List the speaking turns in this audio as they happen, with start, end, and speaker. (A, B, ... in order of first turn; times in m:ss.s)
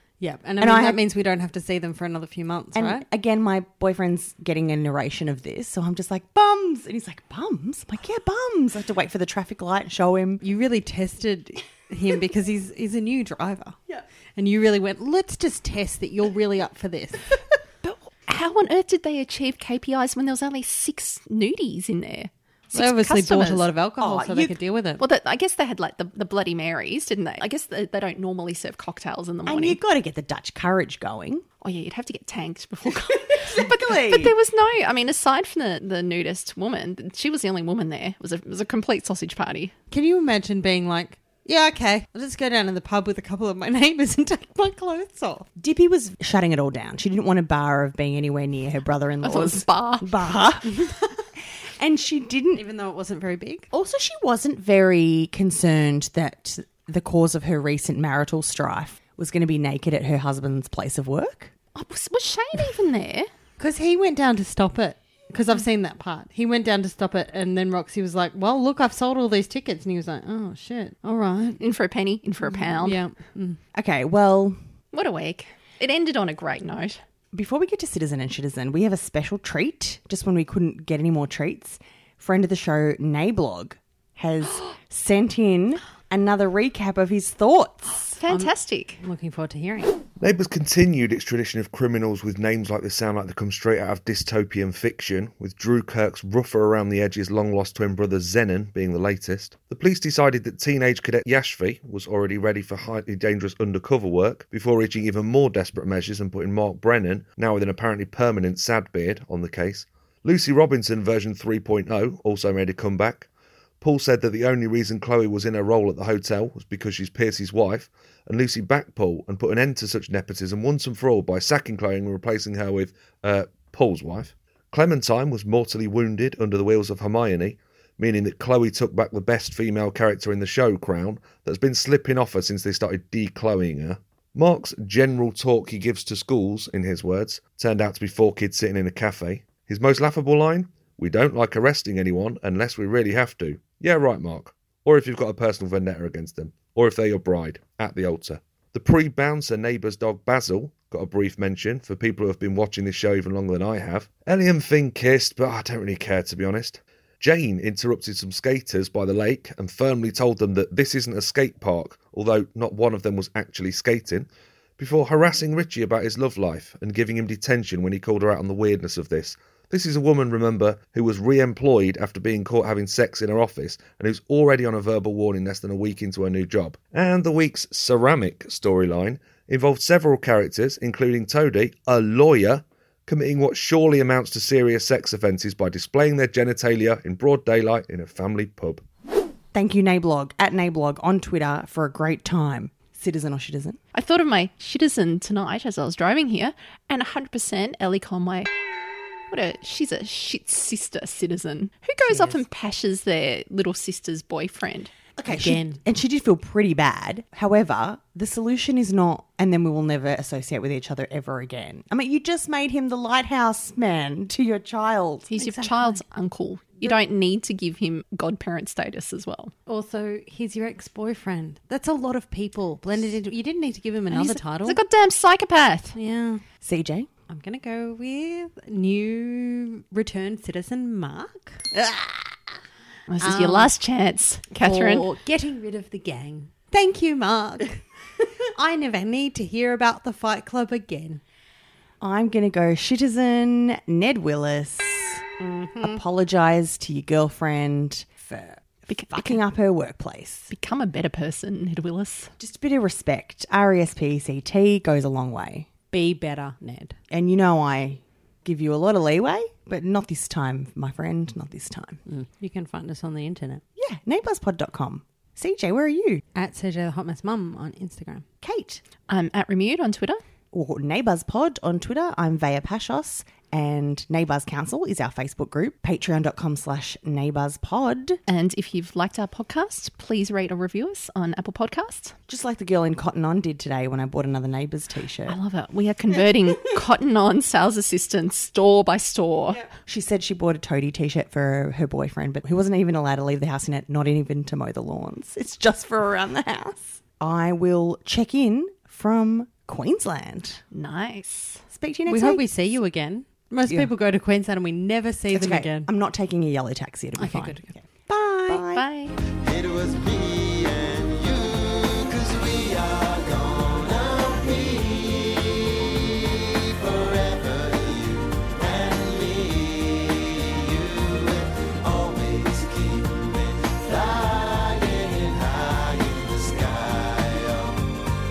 0:00.2-0:03.0 A
0:00.6-0:01.0 B
0:02.8-0:10.4 B
0:10.4-0:13.8 A
0:14.4-0:17.4 A
0:17.8-0:23.7 C
0:22.7-0:25.0 A
0:24.0-0:24.6 B
0:25.0-0:29.8 C
0:29.5-0:31.4 B
0:31.6-0:39.7 C
0:33.3-0:34.3 B
0:39.9-0:45.5 A
0:45.6-0:50.9 B
0:49.2-0:50.1 C
0:51.8-0:52.6 B
0:52.6-0:53.6 A
0:53.7-1:01.5 B
1:01.8-1:03.3 C
1:03.6-1:11.6 A
1:11.6-1:13.0 C
1:12.8-1:13.6 A
1:13.7-1:14.6 B
1:14.9-1:17.0 C
1:17.3-1:28.1 B
1:28.2-1:29.0 C
1:28.2-1:29.9 A
1:30.2-1:53.3 D
1:53.8-3:08.8 D
3:09.5-3:13.8 B
3:13.9-3:18.5 C
3:19.3-3:24.9 C
3:22.1-3:22.4 B
3:25.2-3:36.0 B
3:25.3-3:25.8 A
3:35.3-3:39.5 C
3:39.7-3:44.8 A
3:44.1-3:46.0 C
3:46.0-3:46.4 A
3:46.6-3:47.1 B
3:47.3-3:51.6 A
3:51.7-3:52.3 B
3:53.1-3:55.1 C
3:53.2-3:53.7 A
3:54.5-3:57.8 A
3:58.6-4:01.2 A
4:02.0-4:05.2 B
4:05.4-4:06.0 A
4:05.8-4:10.5 B
4:08.9-4:09.4 C
4:10.5-4:12.3 C
4:12.4-4:15.7 B
4:15.9-4:17.0 A
4:17.1-4:22.0 B
4:22.1-4:23.6 A
4:23.8-4:26.2 B
4:26.4-4:28.2 A
4:28.4-4:28.8 B
4:29.1-4:30.2 C
4:30.5-4:38.2 B
4:38.3-4:42.2 C
4:42.3-4:45.4 B
4:45.3-4:49.6 C
4:49.7-5:00.6 B
5:00.7-5:01.6 C
5:01.7-5:02.4 B
5:02.1-5:05.9 A
5:05.3-5:08.8 B
5:07.2-5:07.7 A
5:08.5-5:09.2 C
5:09.4-5:27.9 E